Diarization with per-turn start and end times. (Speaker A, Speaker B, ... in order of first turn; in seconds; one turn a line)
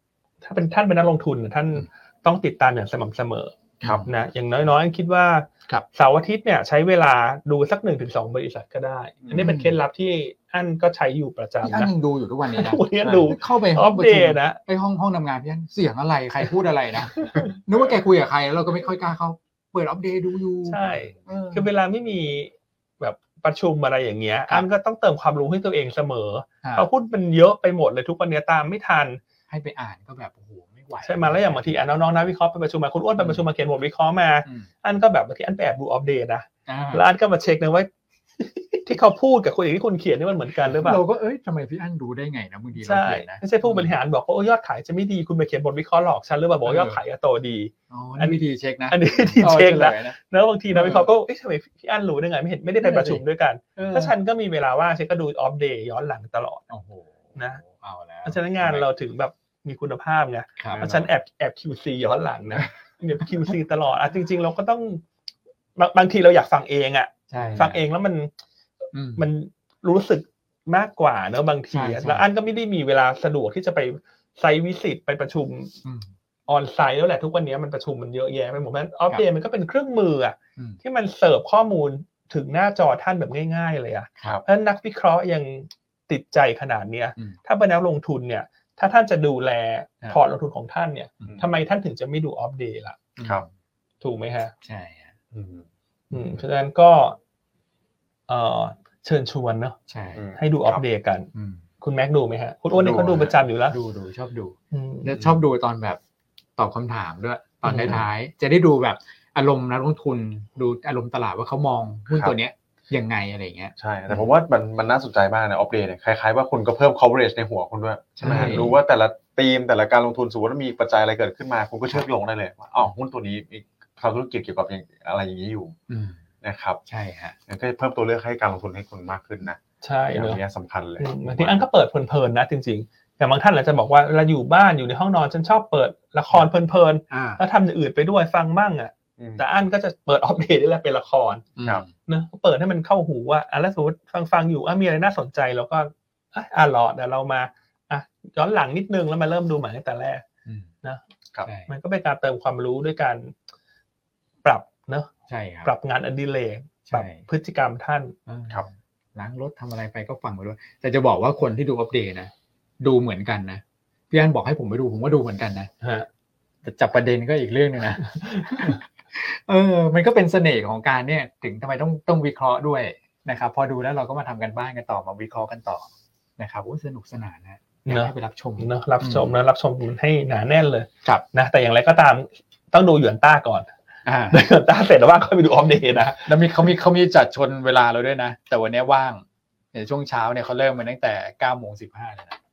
Speaker A: 0.4-3.5
Speaker B: 3.8-4.1
Speaker A: 4.0-11.9
Speaker C: 9.2-9.5
Speaker B: 9.3-9.8
Speaker B: 11.6-21.7
Speaker A: 12.5-14.6
Speaker C: 13.0-13.3
Speaker A: 17.1-17.5
Speaker A: 20.6-29.2
Speaker B: 26.6-26.9
Speaker B: 29.5-31.9
Speaker A: 31.0-41.0
Speaker B: 33.2-33.4
Speaker B: 34.4-34.7
Speaker B: 36.7-37.0
Speaker B: 40.6-43.9
Speaker A: 42.8-56.6
Speaker B: 46.6-47.0
Speaker B: 47.9-50.1
Speaker B: 50.7-51.1
Speaker B: 52.8-53.2
Speaker B: 53.8-54.1
Speaker B: 56.7-58.9
Speaker A: 57.4-57.6
Speaker A: 58.2-65.0
Speaker B: 60.6-60.9
Speaker C: 60.7-61.0
Speaker A: 65.8-68.3
Speaker B: 67.3-67.8
Speaker B: 68.9-69.2
Speaker A: 69.2-75.8
Speaker B: 71.7-72.2
Speaker B: 75.8-76.1
Speaker A: 76.5-93.0
Speaker B: 93.2-93.5
Speaker A: 94.0-94.5
Speaker B: 94.6-95.1
Speaker C: 95.3-95.7
Speaker B: 96.1-96.4
Speaker A: 96.1-97.2
Speaker A: 98.3-99.8
Speaker B: 99.9-100.2
Speaker C: 100.1-100.8
Speaker A: 100.4-101.3
Speaker B: 101.3-101.6
Speaker A: 101.8-103.8
Speaker C: 102.7-103.3
Speaker B: 103.7-106.0
Speaker A: 104.7-105.2
Speaker B: 106.6-114.3
Speaker A: 107.6-108.0
Speaker C: 113.8-125.8
Speaker B: 118.2-118.8
Speaker B: 125.9-126.2
Speaker C: 126.4-126.8
Speaker B: 126.9-127.3
Speaker C: 127.5-129.6
Speaker A: 129.8-130.4
Speaker C: 130.1-131.6
Speaker A: 131.0-141.5
Speaker B: 137.1-137.4
Speaker C: 139.2-139.4
Speaker B: 141.6-141.9
Speaker A: 142.1-150.2
Speaker B: 150.4-150.7
Speaker B: 151.4-151.7
Speaker A: 151.7-153.3
Speaker A: 154.4-155.1
Speaker B: 155.3-155.7
Speaker A: 155.6-158.1
Speaker B: 156.8-157.2
Speaker B: 158.3-165.7
Speaker A: 165.8-166.1
Speaker B: 166.6-179.3
Speaker A: 168.1-168.8
Speaker A: 177.8-183.7
Speaker B: 184.0-184.4
Speaker A: 184.3-186.4
Speaker B: 186.2-192.4